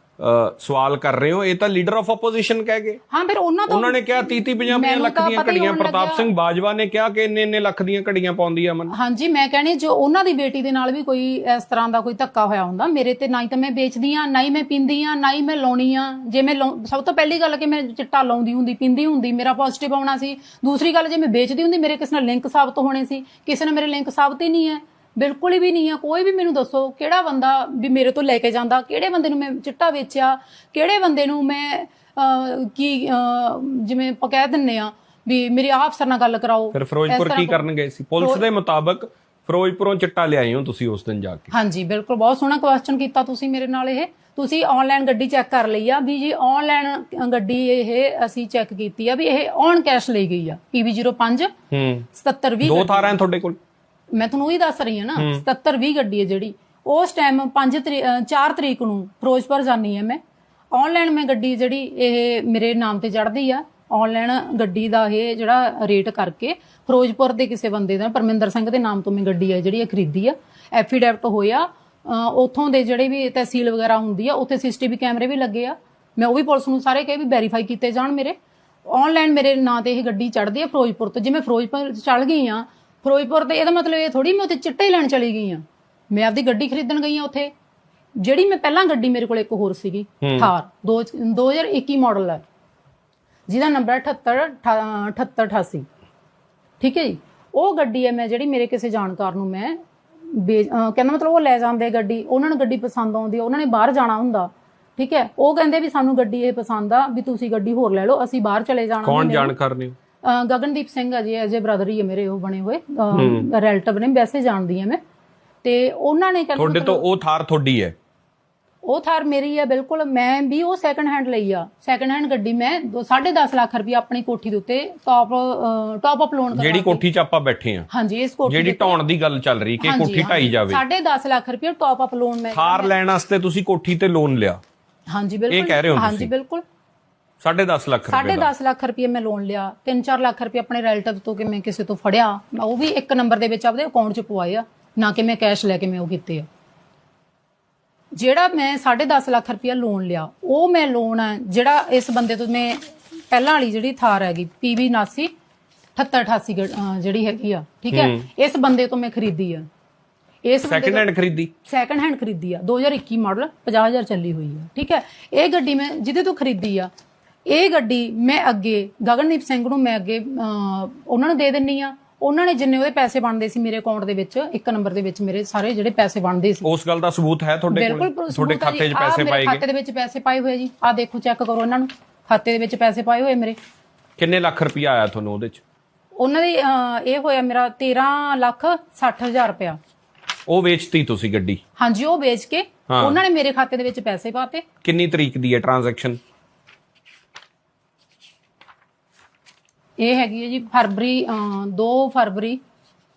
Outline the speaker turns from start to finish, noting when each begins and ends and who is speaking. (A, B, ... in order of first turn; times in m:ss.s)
0:00.2-0:03.0 A
0:03.1-0:06.3 B
0:03.7-0:08.9 A
0:08.9-0:37.7 B
0:36.7-0:41.5 A
0:38.2-0:38.5 B
0:41.5-0:51.5 B
0:51.7-0:52.1 A
0:52.1-0:53.2 B
0:52.6-0:53.6 A
0:54.1-1:00.2 B
0:55.2-0:55.4 A
1:00.7-1:27.5 B
1:28.2-1:32.4 B
1:30.2-1:30.5 A
1:33.5-1:35.9 B
1:36.8-1:49.5 B
1:49.0-1:50.0 A
1:50.2-1:55.0 B
1:53.1-1:53.5 A
1:55.6-1:57.0 B
1:56.6-1:58.0 A
1:58.8-2:07.0 B
2:06.6-2:07.9 A
2:07.9-2:09.0 B
2:08.5-2:10.8 A
2:09.8-2:12.9 B
2:12.5-2:14.6 A
2:15.1-2:16.6 B
2:15.5-2:16.3 A
2:17.4-2:18.5 A
2:18.1-2:26.5 B
2:28.2-2:35.3 B
2:36.0-2:39.7 B
2:37.9-2:38.2 A
2:40.4-2:41.1 B
2:40.7-2:41.5 A
2:41.6-2:46.9 B
2:47.5-2:56.7 B
2:56.6-2:59.6 A
2:57.7-3:03.6 B
3:04.2-3:05.6 A
3:06.2-3:09.8 B
3:10.5-3:11.6 A
3:11.8-3:14.6 B
3:12.9-3:13.2 A
3:14.8-3:16.2 A
3:20.0-3:22.6 B